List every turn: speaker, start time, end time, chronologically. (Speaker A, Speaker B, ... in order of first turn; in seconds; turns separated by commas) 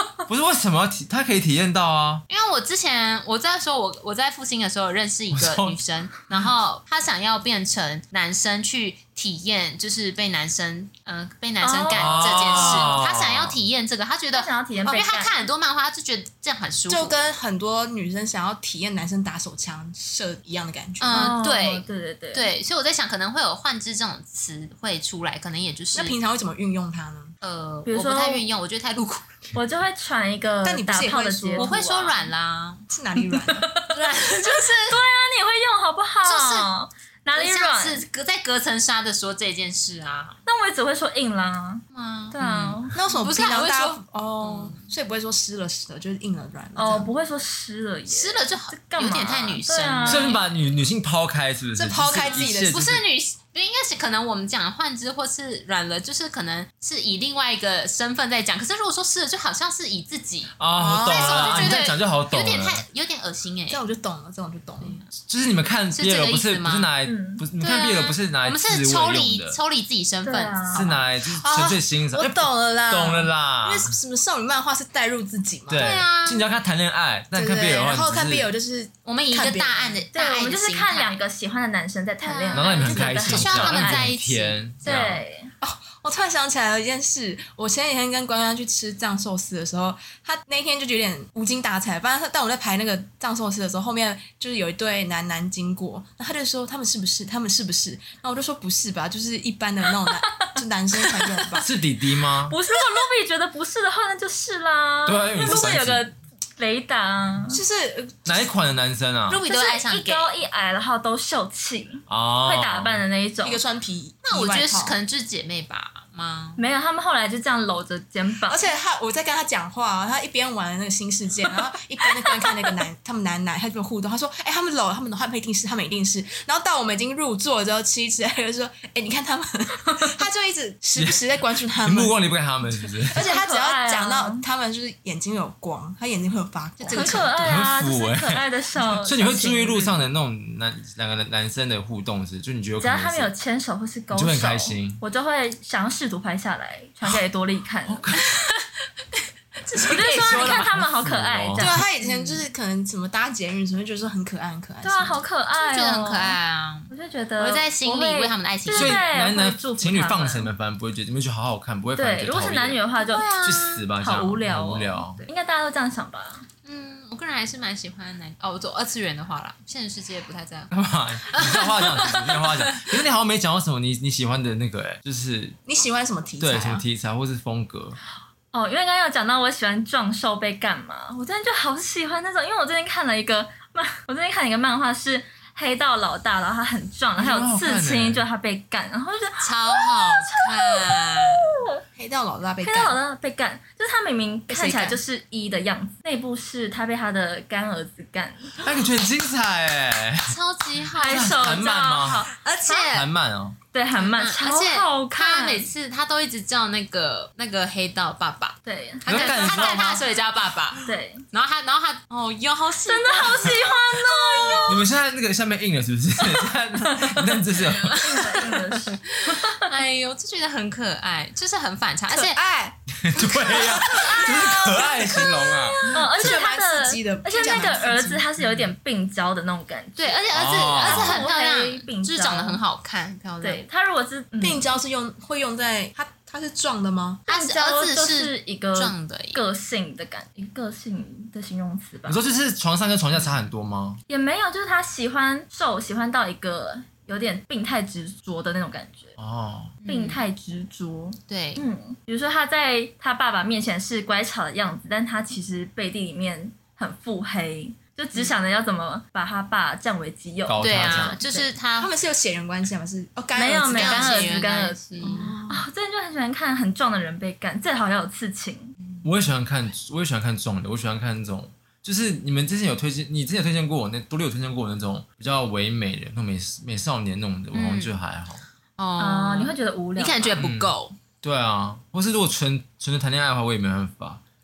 Speaker A: 0.3-2.2, Speaker B: 2.3-17.2, Speaker A: 5.3-5.8, Speaker C: 11.6-13.0, Speaker A: 11.9-13.6, Speaker C: 14.3-15.4, Speaker D: 16.9-21.3, Speaker B: 21.0-26.2, Speaker C: 21.1-22.5, Speaker D: 25.9-27.3, Speaker B: 27.4-29.3, Speaker C: 27.9-28.4, Speaker C: 29.5-32.3, Speaker D: 30.6-31.8, Speaker B: 31.6-32.8, Speaker D: 32.9-33.7, Speaker C: 33.2-34.0, Speaker B: 33.9-35.0, Speaker C: 34.9-38.0, Speaker B: 36.2-36.7, Speaker B: 37.3-40.4, Speaker C: 40.5-43.0, Speaker B: 41.9-44.9, Speaker D: 42.9-47.1, Speaker C: 46.8-50.4, Speaker B: 48.1-50.4, Speaker A: 50.0-53.0, Speaker D: 51.8-52.8, Speaker B: 52.1-63.8, Speaker A: 60.6-62.8, Speaker D: 60.8-61.9, Speaker D: 63.7-65.0, Speaker B: 64.8-65.1, Speaker A: 65.2-69.6, Speaker B: 65.9-66.9, Speaker C: 67.0-67.4, Speaker B: 67.6-70.9, Speaker C: 70.2-70.9, Speaker A: 70.7-74.0, Speaker D: 71.2-75.9, Speaker A: 75.7-78.5, Speaker B: 75.7-76.4, Speaker D: 77.3-80.0, Speaker B: 79.0-81.2, Speaker C: 80.1-84.1, Speaker B: 82.2-85.0, Speaker A: 82.5-85.2, Speaker C: 84.8-85.5, Speaker D: 85.6-101.7, Speaker C: 100.3-100.6, Speaker A: 101.6-102.5, Speaker C: 102.4-107.6, Speaker A: 105.0-106.0, Speaker D: 105.5-105.8, Speaker D: 107.5-108.5, Speaker A: 108.2-109.4, Speaker B: 109.3-110.3, Speaker C: 109.5-113.6, Speaker A: 112.1-113.0, Speaker D: 113.4-115.0, Speaker B: 114.2-116.6, Speaker C: 116.6-118.6, Speaker D: 118.5-132.2, Speaker A: 131.8-133.3, Speaker D: 133.1-137.3, Speaker C: 133.1-134.4, Speaker B: 136.8-137.3, Speaker C: 136.9-140.0, Speaker A: 137.3-143.3, Speaker C: 142.8-148.1, Speaker A: 144.1-145.0, Speaker A: 147.8-148.2, Speaker B: 148.2-150.7, Speaker C: 149.9-151.9, Speaker A: 150.2-151.8, Speaker D: 151.6-155.2, Speaker B: 152.0-152.4, Speaker C: 154.8-156.4, Speaker B: 155.6-159.0, Speaker C: 156.9-160.5, Speaker A: 158.7-162.8, Speaker C: 161.9-163.3, Speaker B: 163.0-163.8, Speaker A: 163.4-165.2, Speaker C: 163.9-166.4, Speaker B: 166.6-170.7, Speaker A: 170.7-175.6, Speaker B: 171.2-172.9, Speaker D: 175.7-176.8, Speaker A: 176.4-178.0, Speaker C: 178.5-191.8, Speaker A: 187.2-188.2, Speaker B: 189.4-191.5, Speaker D: 191.9-193.0, Speaker C: 192.6-198.5, Speaker D: 194.5-195.0, Speaker A: 198.6-200.3, Speaker B: 200.3-201.5, Speaker C: 200.9-202.9, Speaker A: 201.0-202.3, Speaker B: 202.4-203.1, Speaker A: 202.9-203.6, Speaker C: 203.7-205.7, Speaker B: 203.9-214.6, Speaker C: 208.6-209.9, Speaker A: 209.1-210.1, Speaker C: 210.8-211.2, Speaker C: 212.8-214.9, Speaker A: 214.7-218.4, Speaker C: 216.4-217.4, Speaker B: 217.5-222.4, Speaker C: 218.0-219.7, Speaker D: 222.1-228.2, Speaker A: 223.0-226.1, Speaker C: 224.3-232.6, Speaker B: 230.0-233.6, Speaker A: 230.3-231.2, Speaker C: 233.4-234.7, Speaker D: 234.4-237.2, Speaker B: 237.3-239.4, Speaker C: 237.3-242.2, Speaker A: 242.1-244.0, Speaker C: 244.1-249.2, Speaker A: 249.2-249.7, Speaker B: 249.8-250.2, Speaker C: 249.8-261.5, Speaker B: 251.3-251.6, Speaker A: 260.4-261.2, Speaker B: 260.6-261.9, Speaker D: 261.8-264.3, Speaker C: 263.3-268.8, Speaker B: 263.7-265.3, Speaker D: 265.0-265.6, Speaker A: 269.0-278.4, Speaker B: 277.5-277.9, Speaker B: 278.8-281.0, Speaker C: 279.0-280.4, Speaker A: 280.4-284.2